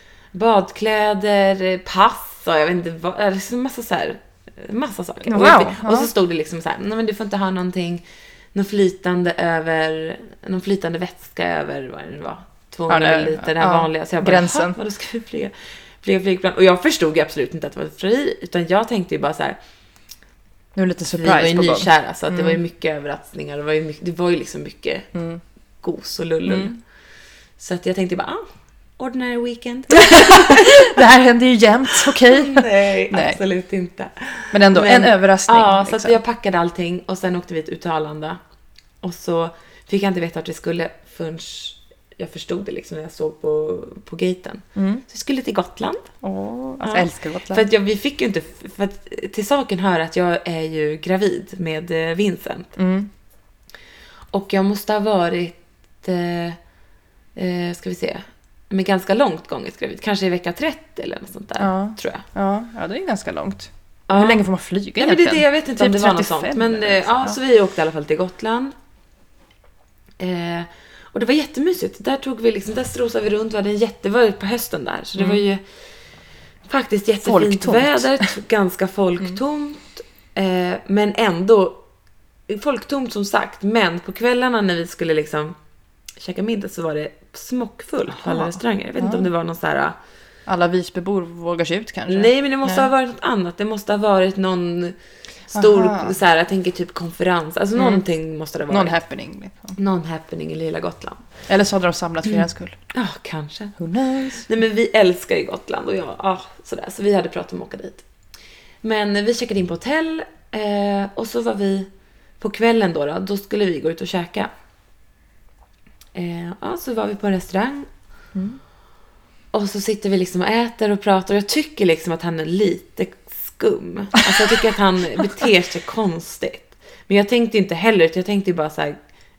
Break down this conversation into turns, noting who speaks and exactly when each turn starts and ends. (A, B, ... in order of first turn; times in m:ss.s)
0:00.3-0:08.0 A
0:05.2-0:06.1 B
0:08.5-0:19.6 A
0:12.9-0:14.8 B
0:20.7-0:22.6 B
0:21.2-0:25.1 A
0:25.1-0:25.4 B
0:25.8-0:26.8 A
0:26.5-0:26.7 B
0:27.6-0:28.4 A
0:29.0-0:31.0 A
0:29.9-0:33.4 B
0:32.1-0:38.4 A
0:34.5-0:36.2 B
0:39.0-0:46.1 A
0:44.8-0:45.0 B
0:46.2-0:47.6 B
0:46.8-0:52.8 A
0:52.8-0:53.1 B
0:54.3-0:56.6 A
0:57.3-1:02.2 A
1:01.6-1:07.4 B
1:04.1-1:04.4 A
1:05.0-1:08.7 A
1:10.2-1:15.6 A
1:16.7-1:21.8 A
1:17.2-1:18.3 B
1:22.5-1:25.6 A
1:26.2-1:29.9 A
1:28.2-1:29.3 B
1:30.5-1:32.9 B
1:32.1-1:35.0 A
1:35.5-1:39.0 A
1:35.5-1:36.1 B
1:37.8-1:38.0 B
1:38.7-1:39.8 B
1:39.8-1:41.2 A
1:41.5-1:42.8 B
1:42.2-1:43.8 A
1:43.8-1:44.5 B
1:44.4-1:48.0 A
1:48.8-1:51.9 A
1:52.4-1:54.5 A
1:56.1-1:57.9 A
1:59.5-2:09.0 A